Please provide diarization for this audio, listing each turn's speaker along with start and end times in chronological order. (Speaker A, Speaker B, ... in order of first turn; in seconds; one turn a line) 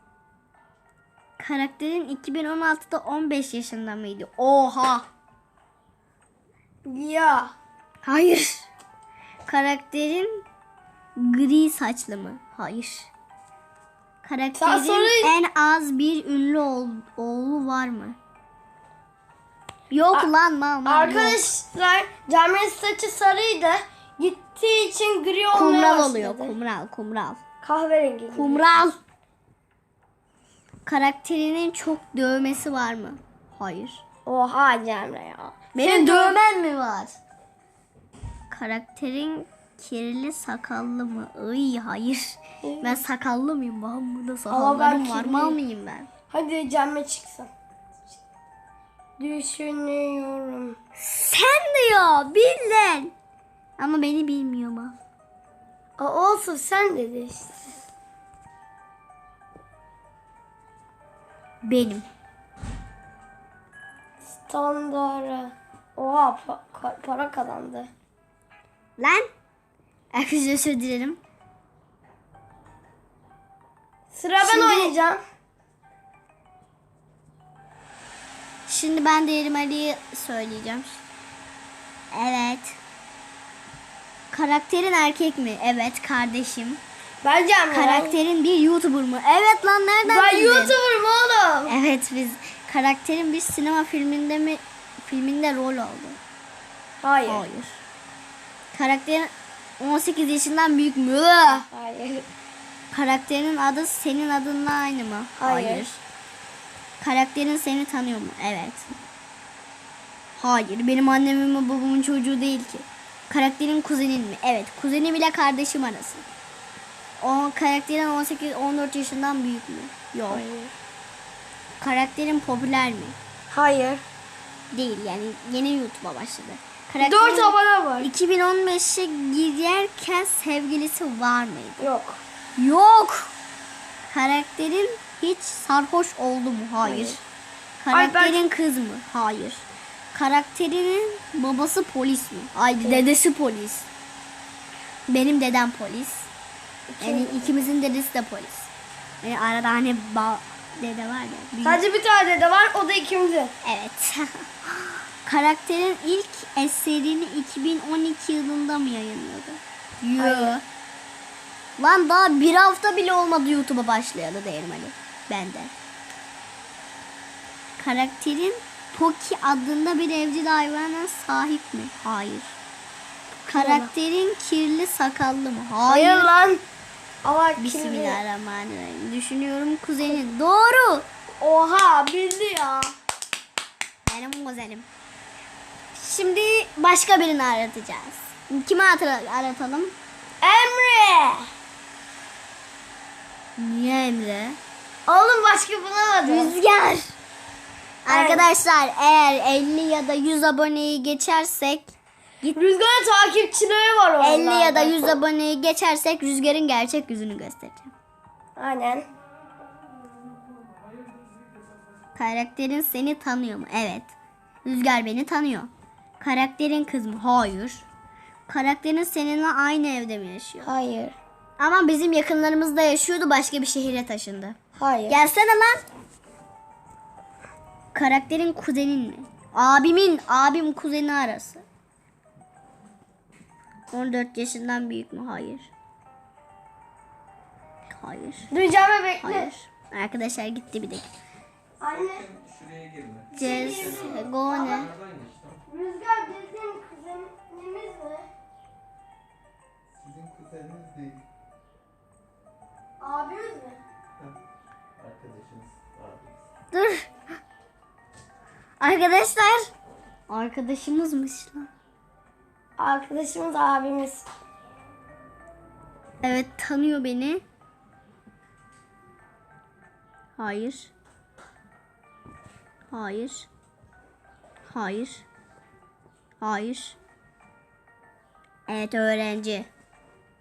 Speaker A: 1.4-5.0
Speaker B: 6.8-7.5
Speaker A: 8.0-8.7
Speaker A: 9.4-10.4
Speaker A: 11.2-13.1
Speaker A: 14.2-18.2
Speaker B: 14.6-15.3
Speaker A: 19.9-21.4
Speaker B: 20.8-26.5
Speaker A: 25.5-27.4
Speaker B: 27.6-28.6
Speaker A: 28.3-29.0
Speaker A: 30.8-34.0
Speaker B: 34.2-36.4
Speaker A: 35.7-37.2
Speaker A: 38.5-46.1
Speaker B: 42.6-43.0
Speaker B: 44.5-45.6
Speaker B: 46.3-47.5
Speaker B: 49.2-50.8
Speaker A: 51.0-53.1
Speaker A: 53.8-55.0
Speaker B: 56.0-57.8
Speaker A: 61.6-62.0
Speaker B: 64.4-67.9
Speaker A: 69.0-69.3
Speaker A: 70.1-71.2
Speaker B: 74.1-75.2
Speaker A: 74.4-74.9
Speaker A: 78.7-81.0
Speaker A: 82.1-82.8
Speaker A: 84.3-86.8
Speaker B: 87.2-88.1
Speaker A: 87.7-90.7
Speaker B: 90.0-91.7
Speaker A: 91.7-96.2
Speaker B: 97.0-97.4
Speaker A: 97.2-97.8
Speaker A: 98.7-101.7
Speaker B: 101.7-102.3
Speaker A: 102.9-106.0
Speaker B: 105.4-105.8
Speaker A: 107.0-108.9
Speaker A: 110.4-116.2
Speaker A: 117.2-120.4
Speaker B: 120.3-120.7
Speaker A: 121.8-123.2
Speaker B: 123.5-124.0
Speaker A: 124.7-131.8
Speaker B: 127.0-128.1
Speaker B: 131.8-132.2
Speaker A: 132.6-133.3
Speaker A: 134.1-137.2
Speaker B: 136.8-137.2
Speaker A: 137.8-143.9
Speaker B: 137.9-138.4
Speaker A: 145.1-146.3
Speaker B: 146.9-147.6
Speaker A: 147.0-148.7
Speaker A: 149.2-151.8
Speaker B: 151.6-153.5
Speaker A: 153.6-160.6
Speaker B: 160.2-160.6
Speaker A: 161.8-165.7
Speaker A: 167.8-172.5
Speaker A: 173.4-176.3
Speaker B: 173.5-173.9
Speaker B: 175.9-176.6
Speaker B: 177.2-178.2
Speaker A: 177.6-181.1
Speaker B: 181.4-182.9
Speaker A: 184.1-184.9
Speaker A: 185.9-189.9
Speaker B: 190.4-191.5
Speaker A: 193.6-194.6
Speaker B: 195.1-196.5
Speaker A: 196.2-197.1
Speaker A: 198.0-202.6
Speaker B: 198.1-198.4
Speaker B: 202.5-205.0
Speaker A: 204.2-207.9
Speaker B: 208.6-209.1
Speaker A: 212.1-214.1
Speaker A: 214.6-217.8
Speaker A: 218.5-220.7
Speaker B: 220.6-221.1
Speaker A: 221.6-224.6
Speaker B: 224.8-225.2
Speaker A: 225.1-225.8
Speaker A: 227.9-231.6
Speaker A: 233.9-235.7
Speaker A: 237.9-238.5
Speaker B: 238.5-239.5
Speaker A: 239.2-241.1
Speaker B: 241.8-242.3
Speaker C: 242.0-245.6
Speaker B: 243.3-244.8
Speaker A: 243.3-244.9
Speaker B: 245.7-248.3
Speaker C: 249.9-251.2
Speaker B: 253.0-253.8
Speaker C: 254.9-256.4
Speaker A: 256.7-257.1
Speaker A: 258.8-259.7
Speaker A: 260.3-261.7
Speaker B: 262.8-264.2
Speaker A: 266.2-267.4
Speaker A: 270.4-270.9
Speaker A: 272.9-273.5
Speaker A: 274.7-275.2
Speaker A: 276.4-277.0
Speaker A: 278.7-279.7